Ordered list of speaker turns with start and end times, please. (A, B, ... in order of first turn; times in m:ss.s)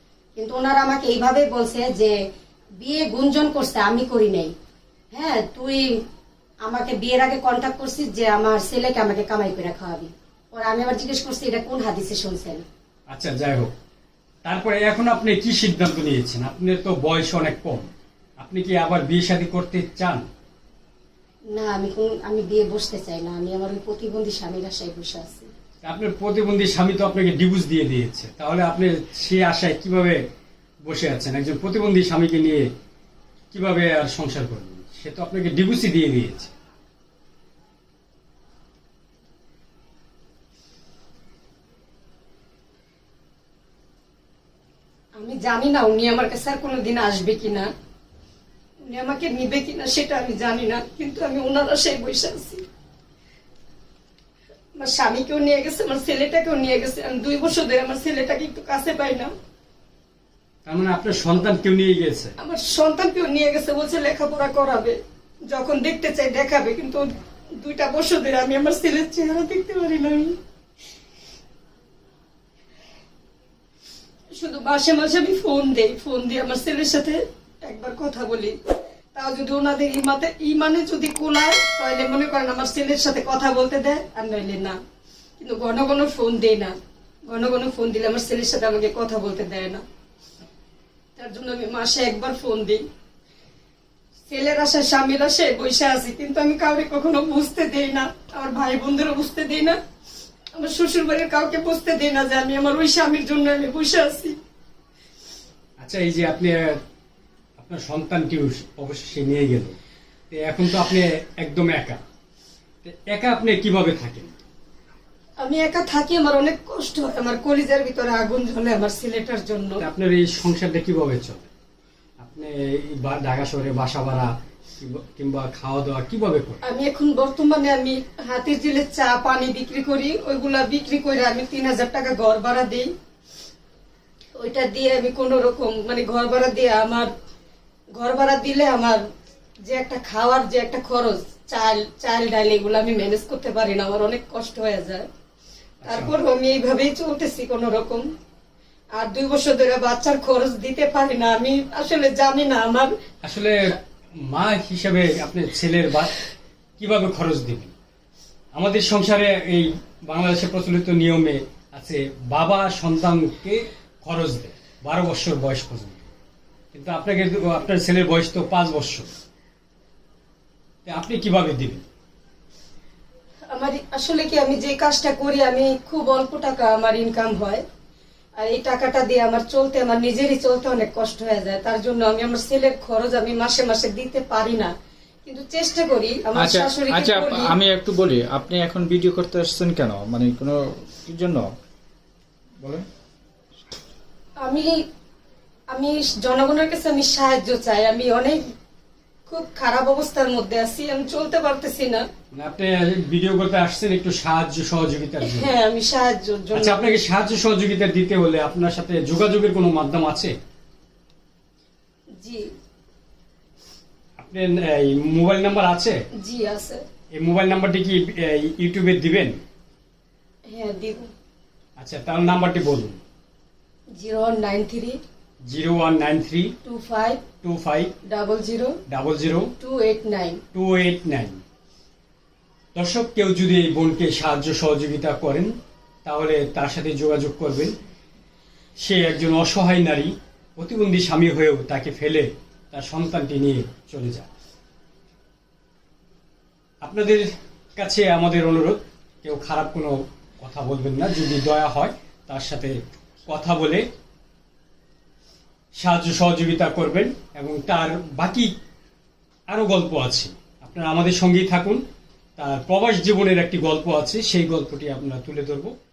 0:00.4-0:02.1 A
0:02.8-0:04.5 A
0:05.1-0:05.9 A
0:06.6-0:12.6 A
0:13.1-0:13.7 B
0:14.4-0:20.2 B
0:21.5-0:25.5 A
0:25.8-0:30.2 B
0:30.8-0:32.7 B
0:33.5-0:36.5 B
0:45.2-0:47.7 A
0:48.8-0:52.6 A
0:54.8-0:59.3 A
1:00.6-1:02.3 B
1:02.4-1:10.3 A
1:14.3-1:18.6 A
1:19.1-1:24.8 A
1:25.4-1:26.7 A
1:27.3-1:29.8 A
1:31.2-1:32.8 A
1:34.3-1:39.8 A
1:40.6-1:44.4 A
1:45.8-1:46.8 B
1:47.6-1:49.8 B
1:50.3-1:52.0 B
1:52.8-1:54.3 B
1:55.4-1:59.8 A
1:59.8-2:01.5 B
2:02.2-2:06.6 B
2:06.6-2:12.9 A
2:14.4-2:17.1 A
2:17.9-2:19.0 A
2:19.6-2:25.0 A
2:25.8-2:26.1 B
2:25.8-2:28.0 A
2:28.9-2:32.9 A
2:33.2-2:33.8 B
2:34.3-2:36.2 B
2:36.8-2:37.7 B
2:38.5-2:46.1 B
2:46.7-2:49.1 B
2:50.8-2:51.8 B
2:53.5-2:57.6 A
2:58.4-3:04.7 A
3:05.2-3:07.5 A
3:06.4-3:11.4 C
3:12.6-3:12.9 C
3:14.4-3:14.8 A
3:15.7-3:18.4 A
3:19.3-3:22.0 A
3:22.3-3:25.5 B
3:25.2-3:27.0 A
3:26.5-3:30.3 B
3:32.1-3:32.4 A
3:34.2-3:36.0 B
3:36.2-3:36.8 A
3:37.1-3:39.4 B
3:40.5-3:41.1 A
3:41.8-3:43.0 B
3:43.9-3:45.0 A
3:45.4-3:46.5 B
3:46.6-3:47.2 A
3:47.4-3:47.9 B
3:48.1-3:48.8 A
3:48.9-3:49.5 B
3:49.6-3:50.4 A
3:50.5-3:51.4 B
3:52.7-3:55.5 B
3:56.0-3:57.7 B
3:58.8-4:04.3 B
4:06.8-4:12.7 B
4:13.3-4:13.8 B
4:15.7-4:18.5 B
4:19.5-4:21.8 B
4:22.4-4:25.7 B